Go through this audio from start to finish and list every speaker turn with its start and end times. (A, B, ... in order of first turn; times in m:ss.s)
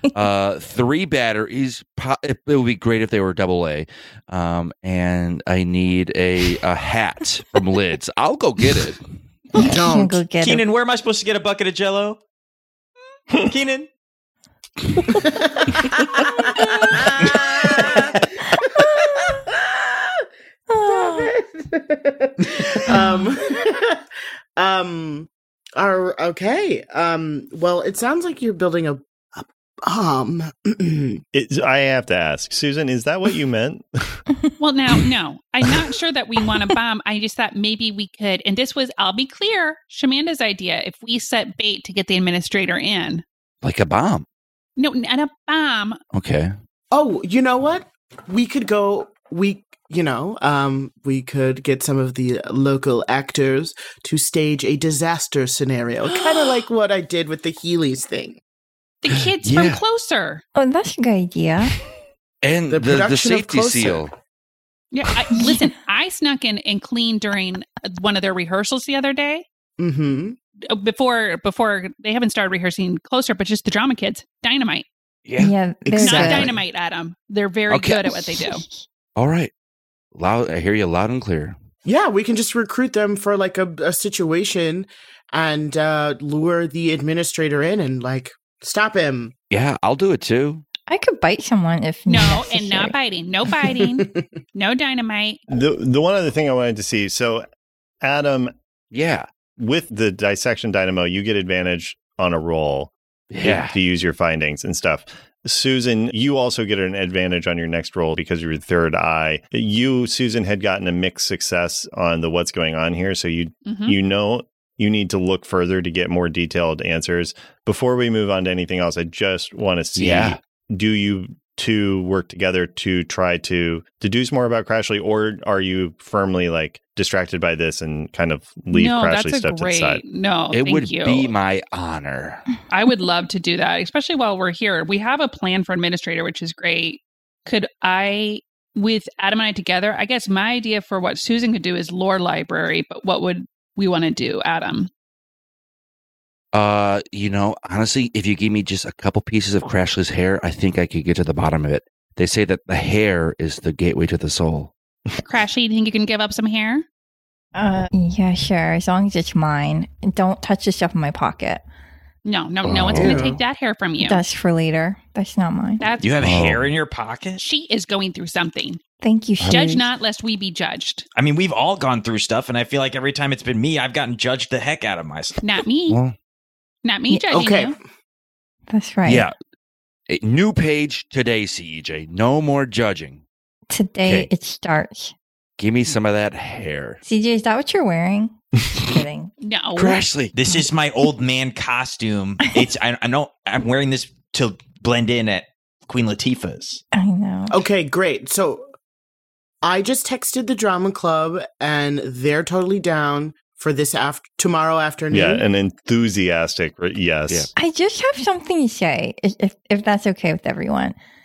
0:00.1-0:09.0 A
0:09.6-0:10.6 B
0:09.6-0:10.2 C
0:10.4-0:12.2 D
0:13.4-0:13.9 D
0:15.2-0:20.1 C
0:16.4-0:17.1 B
0:17.6-0:18.1 D
0:18.5-0:19.4 B
0:20.7-0:21.4 B
0:20.8-0:31.2 C
0:22.9-0:23.3 B
0:31.3-0:34.2 E
0:34.6-0:43.2 F
0:43.6-0:44.3 A
0:44.8-0:46.0 F
0:46.1-0:46.5 A
0:46.9-0:58.4 C
0:59.0-1:00.4 F
0:59.1-0:59.8 A
1:00.6-1:01.8 B
1:02.4-1:04.1 A
1:02.7-1:04.1 C
1:04.9-1:09.4 F
1:05.3-1:05.7 B
1:09.8-1:10.4 C
1:10.7-1:14.9 F
1:15.3-1:16.5 A
1:15.4-1:16.5 B
1:15.9-1:16.5 C
1:16.0-1:18.6 F
1:17.7-1:18.1 A
1:18.2-1:18.7 B
1:19.2-1:19.5 A
1:20.1-1:21.6 A
1:21.8-1:29.3 C
1:29.5-1:30.6 A
1:30.9-1:33.0 B
1:32.1-1:35.4 F
1:33.8-1:34.2 C
1:35.5-1:37.4 E
1:38.0-1:38.5 E
1:38.9-1:39.3 A
1:39.6-2:10.0 E
1:43.3-1:43.8 A
1:53.7-1:54.0 F
2:00.0-2:00.4 A
2:08.7-2:11.3 F
2:10.5-2:12.5 A
2:12.7-2:24.9 F
2:26.5-2:34.7 A
2:35.2-2:36.8 F
2:37.6-2:41.6 B
2:42.2-2:44.2 F
2:42.6-2:43.3 A
2:43.0-2:43.4 C
2:44.0-2:45.9 B
2:45.8-2:46.2 F
2:46.0-2:47.4 D
2:46.2-2:46.7 A
2:47.4-2:48.8 F
2:49.0-2:49.8 B
2:49.4-2:49.7 A
2:49.5-2:51.1 F
2:51.2-2:55.4 D
2:55.4-2:56.0 F
2:55.9-2:56.2 A
2:56.8-2:57.8 F
2:57.3-2:57.8 C
2:58.7-2:59.3 B
2:59.0-2:59.4 A
3:00.1-3:03.2 A
3:03.7-3:05.1 B
3:04.0-3:04.3 A
3:05.6-3:07.0 A
3:07.0-3:09.3 B
3:09.4-3:10.0 F
3:09.8-3:10.4 A
3:10.3-3:16.8 D
3:16.9-3:17.6 B
3:17.5-3:18.7 C
3:19.6-3:25.4 C
3:25.1-3:27.5 E
3:27.6-3:31.0 B